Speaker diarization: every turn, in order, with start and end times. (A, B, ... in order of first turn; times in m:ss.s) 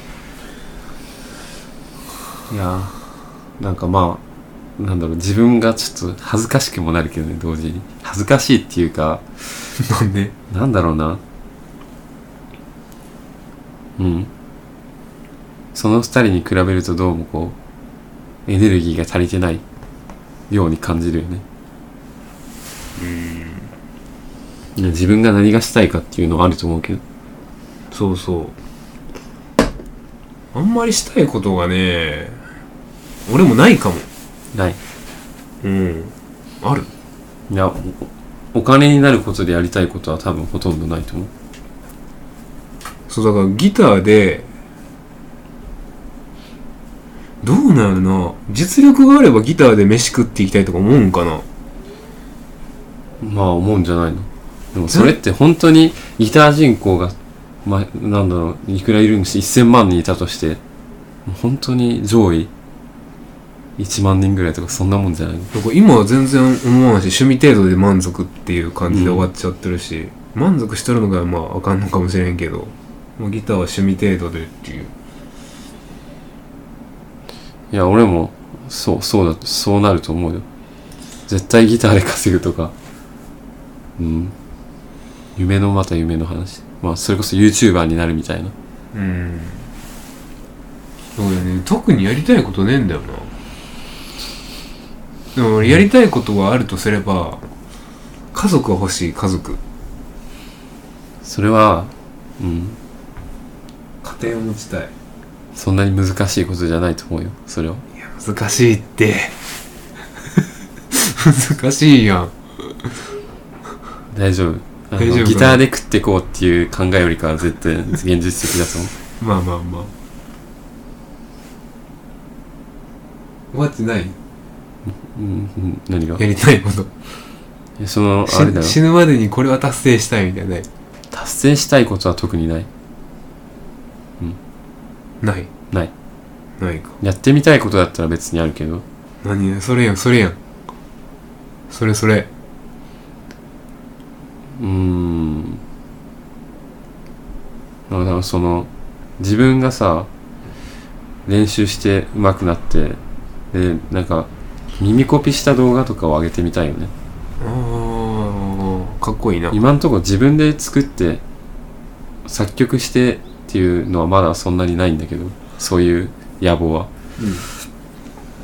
0:02.5-0:03.0 A
0:03.6-0:04.2 A
0:04.8-0:09.7 A
0:09.8-0:10.3 B
0:10.5-0:11.2 A
0:14.0-0:14.3 A
0:15.7-0:17.6 A
0:18.5-0:19.6 A
0:20.5-0:21.4 A
0:23.0-0:23.7 B
0:24.8-0:27.0 A
0:27.9-0:28.6 B
0:30.5-0:32.4 B
0:33.3-0:34.1 B
0:34.5-0:34.8 A
0:35.6-0:36.9 B
0:37.5-0:41.3 A
0:43.1-0:44.5 B
0:47.4-0:51.5 B
0:53.2-1:00.6 A
1:01.3-1:02.5 A
1:03.8-1:05.5 A
1:05.5-1:14.9 B
1:08.9-1:09.3 A
1:17.7-1:20.4 A
1:21.3-1:22.8 A
1:24.0-1:24.4 A
1:25.4-1:28.5 A
1:28.9-1:29.7 B
1:31.2-1:33.3 B
1:35.4-1:37.4 B
1:38.3-1:39.6 B
1:41.2-1:42.8 A
1:44.0-1:44.9 B
1:45.6-1:47.8 A
1:48.0-1:49.4 B
1:50.9-1:52.9 B
1:54.1-1:58.9 A
1:55.0-1:55.6 B
1:59.2-1:59.9 B
2:03.5-2:04.2 B
2:04.9-2:06.2 A
2:06.2-2:06.9 B
2:07.8-2:08.8 A
2:08.3-2:10.7 B
2:11.1-2:12.7 A
2:15.2-2:15.5 B
2:16.6-2:17.0 B
2:17.0-2:18.8 A
2:19.2-2:20.4 B
2:21.7-2:22.3 B
2:24.6-2:25.6 A
2:27.9-2:30.1 A
2:31.3-2:33.0 A
2:33.5-2:36.9 A
2:37.4-2:39.6 B
2:39.5-2:41.2 A
2:42.2-2:46.9 A
2:47.2-2:47.5 B